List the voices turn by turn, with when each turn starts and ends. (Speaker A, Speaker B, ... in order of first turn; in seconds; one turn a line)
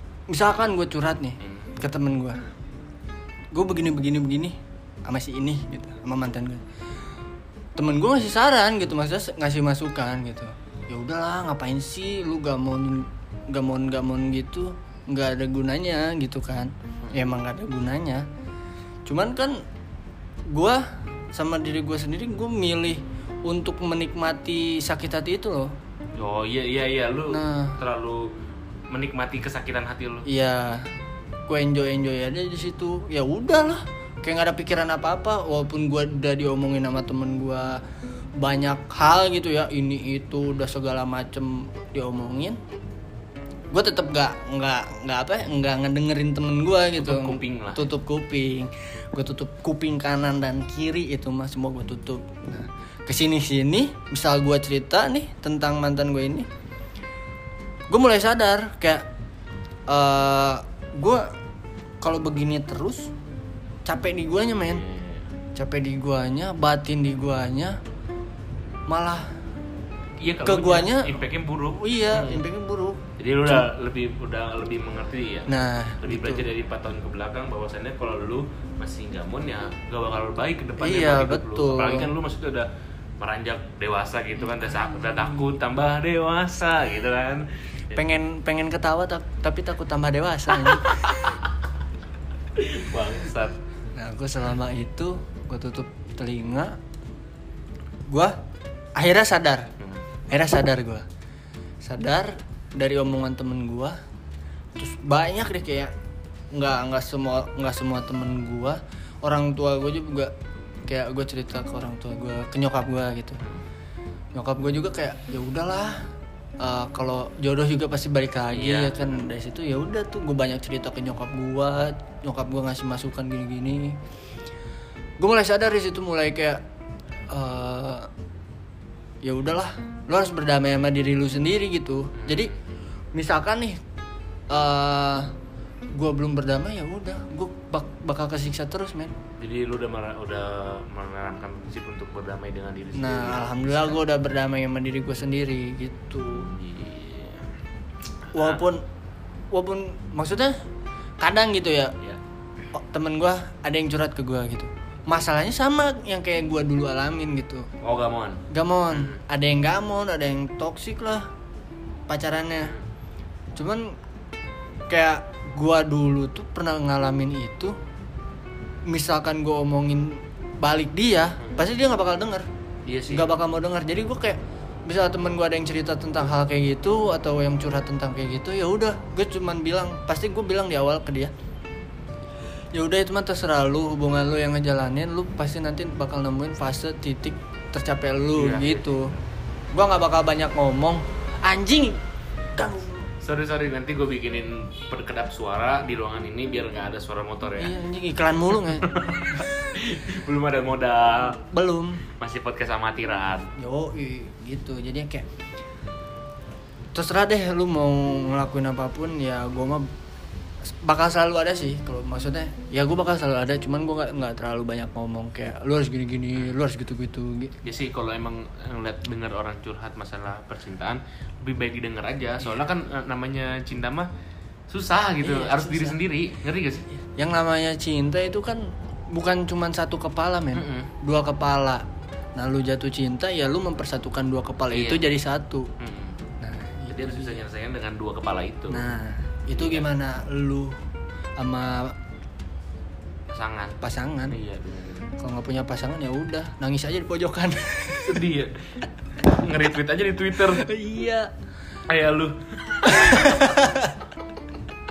Speaker A: 0.3-2.4
Speaker B: 1.4-1.8
Speaker A: 3.5-6.6
Speaker A: 7.8-18.3
Speaker A: 19.1-19.6
Speaker A: 20.5-25.7
Speaker B: 26.2-28.3
Speaker A: 27.3-27.8
Speaker B: 28.9-30.3
Speaker A: 30.2-30.9
Speaker A: 31.5-37.8
Speaker A: 38.4-42.6
Speaker A: 43.7-56.5
Speaker B: 47.0-47.9
Speaker A: 57.9-59.1
Speaker A: 59.9-61.3
Speaker A: 62.0-63.1
Speaker A: 63.8-64.8
Speaker B: 64.6-65.3
Speaker A: 65.5-67.8
Speaker A: 68.9-69.3
Speaker B: 70.2-72.4
Speaker A: 70.4-71.2
Speaker A: 71.8-73.6
Speaker B: 73.2-82.7
Speaker A: 75.5-76.4
Speaker A: 80.8-82.1
Speaker B: 83.2-88.0
Speaker A: 87.9-91.1
Speaker B: 92.5-93.6
Speaker A: 93.9-96.8
Speaker A: 98.1-98.3
Speaker A: 99.0-99.7
Speaker A: 100.3-101.0
Speaker A: 101.8-104.0
Speaker A: 104.8-105.9
Speaker A: 106.5-110.3
Speaker A: 110.9-113.4
Speaker A: 114.3-116.0
Speaker A: 116.6-124.0
Speaker B: 118.5-119.2
Speaker A: 125.2-126.6
Speaker A: 127.3-128.1
Speaker A: 129.2-132.5
Speaker B: 132.2-132.5
Speaker A: 133.1-133.8
Speaker A: 134.5-135.3
Speaker A: 135.9-139.2
Speaker B: 139.4-144.0
Speaker A: 142.9-146.5
Speaker B: 146.3-147.4
Speaker B: 148.3-148.6
Speaker A: 148.3-148.8
Speaker A: 149.5-150.5
Speaker A: 151.2-151.9
Speaker A: 152.7-157.7
Speaker B: 157.8-159.2
Speaker A: 158.5-161.3
Speaker A: 162.1-162.7
Speaker A: 163.6-163.9
Speaker A: 164.9-167.8
Speaker A: 168.9-172.5
Speaker B: 172.8-173.3
Speaker A: 173.1-181.3
Speaker A: 182.7-189.1
Speaker B: 188.3-189.1
Speaker A: 189.7-192.0
Speaker A: 192.6-193.1
Speaker B: 193.2-197.7
Speaker A: 197.6-199.5
Speaker B: 198.7-201.4
Speaker A: 201.4-202.0
Speaker B: 202.2-203.5
Speaker A: 203.6-205.2
Speaker A: 206.9-209.9
Speaker A: 210.8-217.6
Speaker B: 217.6-224.1
Speaker B: 224.7-226.9
Speaker A: 225.2-226.0
Speaker A: 227.2-231.8
Speaker B: 230.5-230.9
Speaker A: 232.3-235.7
Speaker B: 234.7-235.0
Speaker B: 235.8-236.2
Speaker A: 236.4-237.4
Speaker B: 236.9-238.8
Speaker A: 238.7-240.7
Speaker B: 239.6-239.9
Speaker A: 241.4-241.9
Speaker B: 243.3-245.1
Speaker A: 243.8-244.3
Speaker A: 245.2-248.1
Speaker B: 248.0-248.5
Speaker B: 249.2-250.6
Speaker A: 250.6-251.3
Speaker B: 251.9-253.5
Speaker A: 252.8-253.9